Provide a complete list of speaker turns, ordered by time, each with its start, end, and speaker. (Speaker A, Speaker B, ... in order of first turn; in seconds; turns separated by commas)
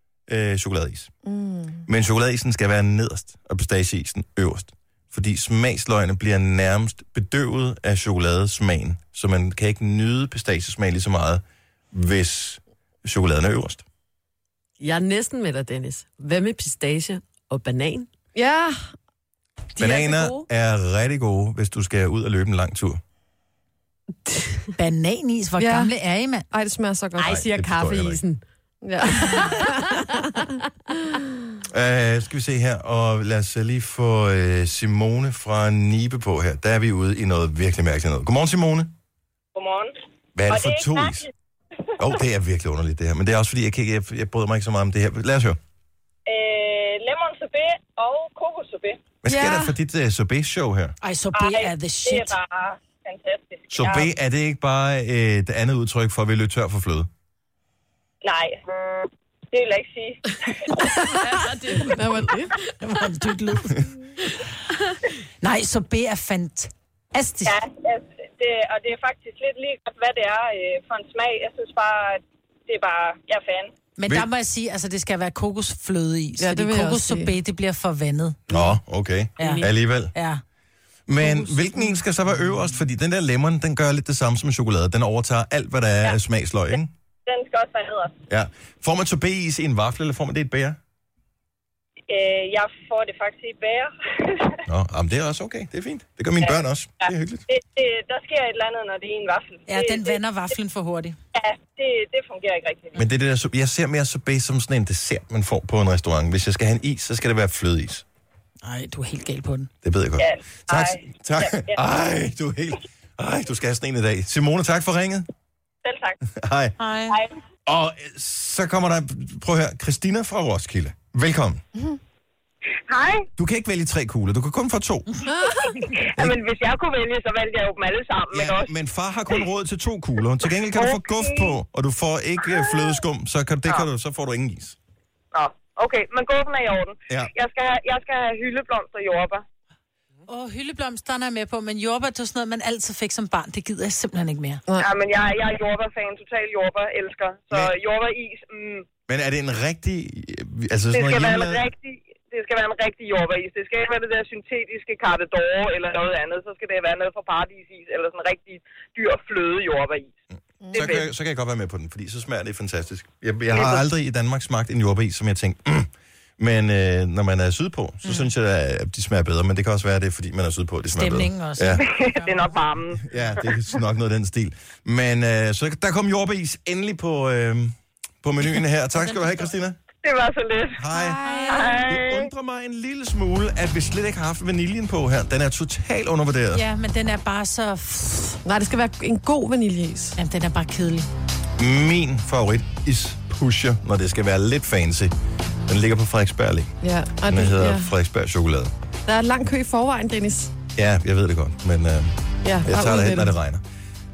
Speaker A: 0.3-1.1, Speaker B: 1.2-1.9, Speaker A: 1.9-13.8, Speaker C: 14.8-18.1, Speaker B: 18.4-18.8, Speaker D: 19.8-20.5, Speaker A: 19.8-23.0, Speaker D: 24.8-26.5, Speaker B: 25.6-25.9, Speaker B: 26.5-27.4, Speaker C: 27.2-28.4, Speaker A: 27.2-28.2, Speaker B: 28.8-29.9, Speaker C: 29.1-29.7, Speaker A: 31.7-38.9, Speaker E: 39.6-39.9, Speaker A: 40.4-41.2, Speaker E: 40.5-41.3, Speaker A: 42.0-45.6, Speaker E: 46.3-49.0, Speaker A: 49.2-51.0, Speaker B: 49.3-49.8, Speaker D: 51.0-52.4, Speaker E: 51.3-54.1, Speaker A: 53.7-57.1, Speaker E: 58.2-61.0, Speaker C: 61.1-62.0, Speaker B: 61.7-62.6, Speaker D: 62.8-63.9, Speaker D: 65.4-67.6, Speaker E: 67.5-73.7, Speaker D: 74.0-78.6, Speaker B: 76.4-77.3, Speaker A: 78.5-80.1, Speaker C: 79.4-79.7, Speaker D: 79.4-80.4, Speaker A: 81.1-86.9, Speaker D: 81.2-82.0, Speaker E: 87.3-88.2, Speaker A: 88.3-90.8, Speaker E: 92.1-94.6, Speaker A: 94.7-97.4, Speaker E: 96.4-100.2, Speaker D: 99.7-101.2, Speaker E: 101.3-103.1, Speaker A: 102.9-108.0, Speaker D: 108.6-109.7, Speaker A: 109.8-115.3, Speaker E: 110.2-111.8, Speaker E: 115.8-116.2, Speaker A: 116.3-116.8, Speaker D: 116.8-117.2, Speaker A: 117.7-121.6, Speaker E: 122.9-123.3, Speaker A: 123.4-125.1, Speaker B: 125.3-125.8, Speaker E: 125.7-128.7, Speaker A: 128.3-134.8, Speaker E: 130.7-131.6, Speaker E: 135.3-139.4, Speaker D: 140.3-144.6, Speaker E: 144.8-148.9, Speaker A: 149.1-151.6, Speaker E: 150.9-160.1, Speaker A: 160.7-171.8, Speaker E: 160.7-161.1, Speaker E: 163.5-163.8, Speaker D: 168.1-168.3, Speaker D: 170.9-172.6, Speaker E: 171.8-173.0, Speaker A: 173.0-179.8, Speaker D: 179.0-179.5, Speaker E: 180.0-180.8, Speaker A: 180.8-186.6, Speaker B: 180.9-181.7, Speaker D: 180.9-181.8, Speaker E: 181.5-182.3, Speaker D: 186.5-188.4, Speaker B: 188.4-190.2, Speaker D: 190.2-191.1, Speaker A: 191.6-195.1, Speaker A: 195.7-196.7, Speaker B: 196.8-197.9, Speaker A: 197.3-198.7, Speaker B: 199.1-200.5, Speaker A: 200.8-203.6, Speaker B: 202.4-203.3